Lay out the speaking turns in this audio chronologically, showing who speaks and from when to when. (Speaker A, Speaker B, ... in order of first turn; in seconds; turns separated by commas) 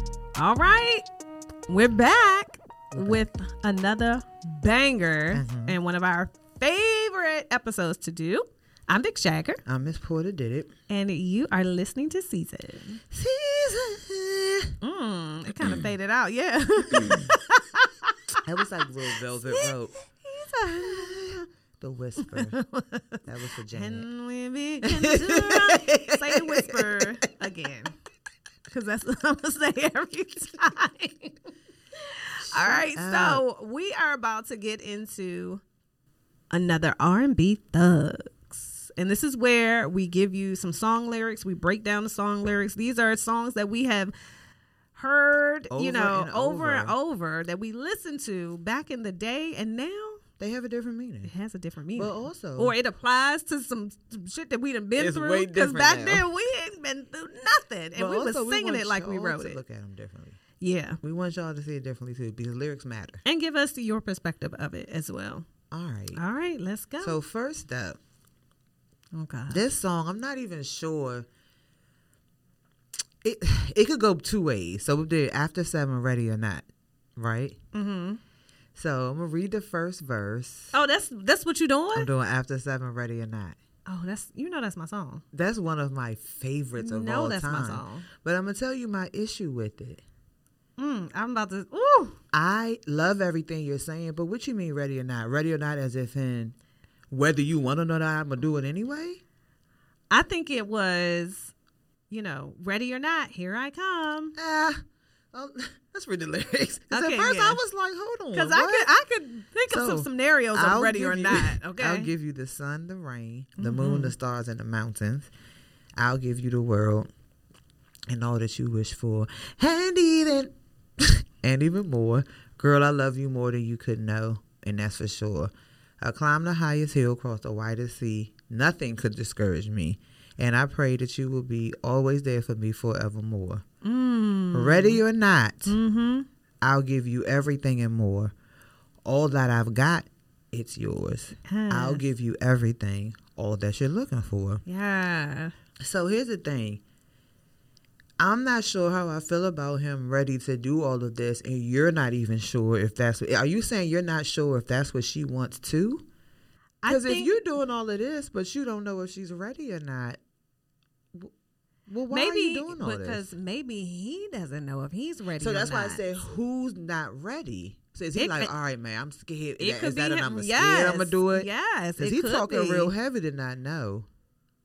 Speaker A: 0.4-1.1, Speaker A: 1.7-9.6, Speaker B: 2.9-3.3, Speaker B: 5.3-5.8, Speaker B: 9.7-10.7, Speaker A: 10.9-13.0, Speaker B: 13.1-14.8, Speaker A: 14.8-18.4, Speaker B: 18.4-19.9, Speaker A: 19.4-21.4, Speaker B: 20.7-22.6, Speaker A: 22.2-28.0, Speaker B: 23.2-24.1, Speaker B: 24.8-27.2, Speaker A: 28.7-31.4, Speaker A: 32.0-35.6, Speaker B: 32.4-33.4, Speaker A: 36.5-44.1, Speaker A: 45.0-50.2, Speaker B: 45.7-47.0, Speaker B: 50.4-51.3, Speaker A: 51.2-59.6, Speaker B: 52.0-52.8, Speaker B: 55.0-56.3, Speaker B: 58.0-60.4, Speaker A: 60.6-61.0, Speaker B: 61.0-63.2, Speaker A: 63.2-65.5, Speaker B: 65.7-66.2, Speaker A: 66.1-67.2, Speaker B: 67.0-68.0, Speaker A: 69.1-69.6, Speaker B: 69.5-71.3, Speaker B: 73.2-77.6, Speaker A: 77.7-78.2, Speaker B: 78.8-80.7, Speaker A: 80.7-82.1, Speaker B: 82.0-83.6, Speaker A: 83.9-85.2, Speaker B: 85.3-90.0, Speaker A: 86.8-88.1, Speaker A: 90.8-92.2, Speaker B: 92.3-96.5, Speaker B: 97.1-99.2, Speaker A: 100.1-101.5, Speaker A: 102.1-104.4, Speaker B: 104.3-104.8, Speaker B: 105.3-108.9, Speaker A: 106.9-107.6, Speaker A: 108.3-112.1, Speaker B: 109.7-115.3, Speaker A: 113.6-114.1, Speaker B: 116.0-117.1, Speaker B: 118.1-133.6, Speaker A: 133.8-135.0, Speaker B: 134.5-135.8, Speaker A: 135.7-136.3, Speaker B: 136.6-138.3, Speaker B: 139.1-144.6, Speaker A: 141.5-142.0, Speaker A: 144.7-145.5, Speaker B: 145.8-146.8, Speaker B: 148.2-156.1, Speaker A: 156.8-157.4, Speaker B: 156.9-160.2, Speaker B: 161.9-163.3, Speaker A: 162.1-166.0, Speaker B: 165.4-174.1, Speaker A: 168.2-168.5, Speaker A: 169.6-172.9